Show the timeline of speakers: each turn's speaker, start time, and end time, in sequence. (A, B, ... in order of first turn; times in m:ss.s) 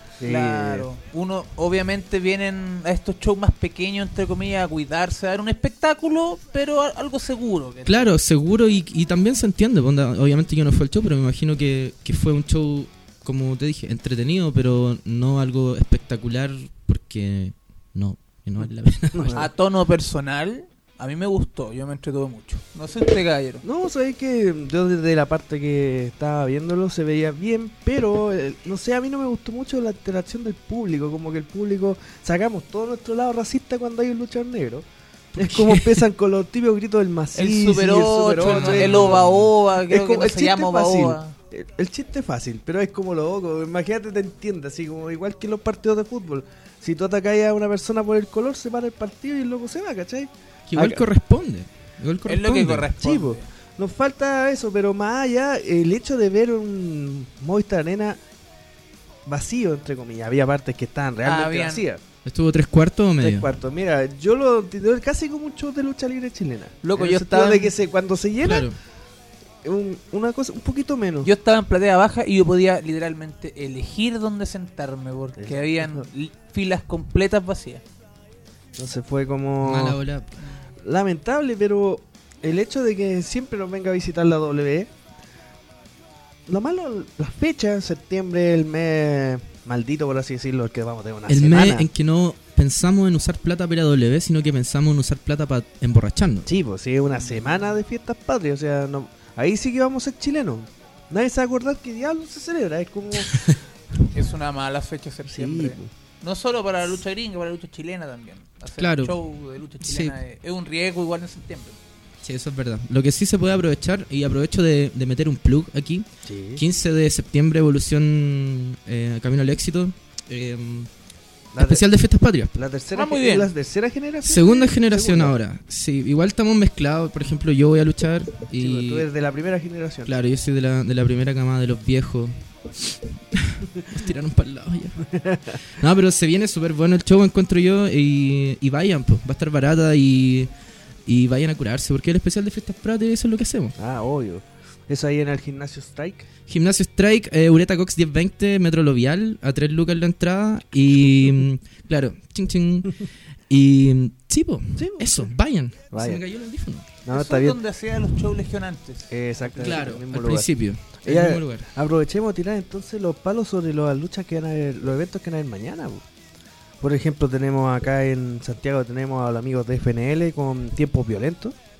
0:00.2-0:00.9 A
0:00.2-0:08.0 B
0:07.8-0:19.5 C
0:19.1-0:19.5 A
0:19.3-0:23.6 B
0:23.6-0:39.2 A
0:35.3-0:36.0 C
0:37.3-0:41.4 B
0:38.4-0:39.5 C
0:39.8-0:51.0 A
0:50.7-0:52.9 C
0:52.2-0:53.4 B
0:53.0-0:58.2 A
0:59.2-1:02.0 A
1:01.2-1:01.8 B
1:02.2-1:03.5 C
1:03.2-1:08.7 A
1:06.8-1:07.7 B
1:08.4-1:08.8 C
1:09.6-1:11.3 A
1:11.2-1:17.8 B
1:15.4-1:16.0 A
1:18.8-1:20.0 A
1:19.6-1:20.3 C
1:20.4-1:20.6 B
1:20.8-1:24.9 A
1:26.5-1:31.9 A
1:31.3-1:36.5 C
1:36.4-1:43.6 A
1:37.1-1:37.7 B
1:43.3-1:43.6 C
1:44.1-1:51.8 B
1:45.2-1:45.9 A
1:48.8-1:49.2 C
1:49.8-1:50.2 C
1:52.2-2:00.9 C
1:56.2-1:56.6 A
2:01.5-2:01.8 A
2:01.6-2:02.5 C
2:02.5-2:05.4 A
2:02.9-2:03.5 B
2:04.2-2:09.0 C
2:08.6-2:10.1 A
2:10.0-2:20.5 C
2:15.1-2:15.6 A
2:21.0-2:23.7 C
2:23.8-2:26.3 A
2:26.5-2:37.0 C
2:31.1-2:31.4 A
2:34.8-2:35.3 A
2:35.9-2:36.2 A
2:37.0-2:37.6 A
2:37.1-2:39.8 B
2:39.1-2:40.5 A
2:39.6-2:41.7 C
2:41.0-2:46.0 A
2:46.8-2:51.5 A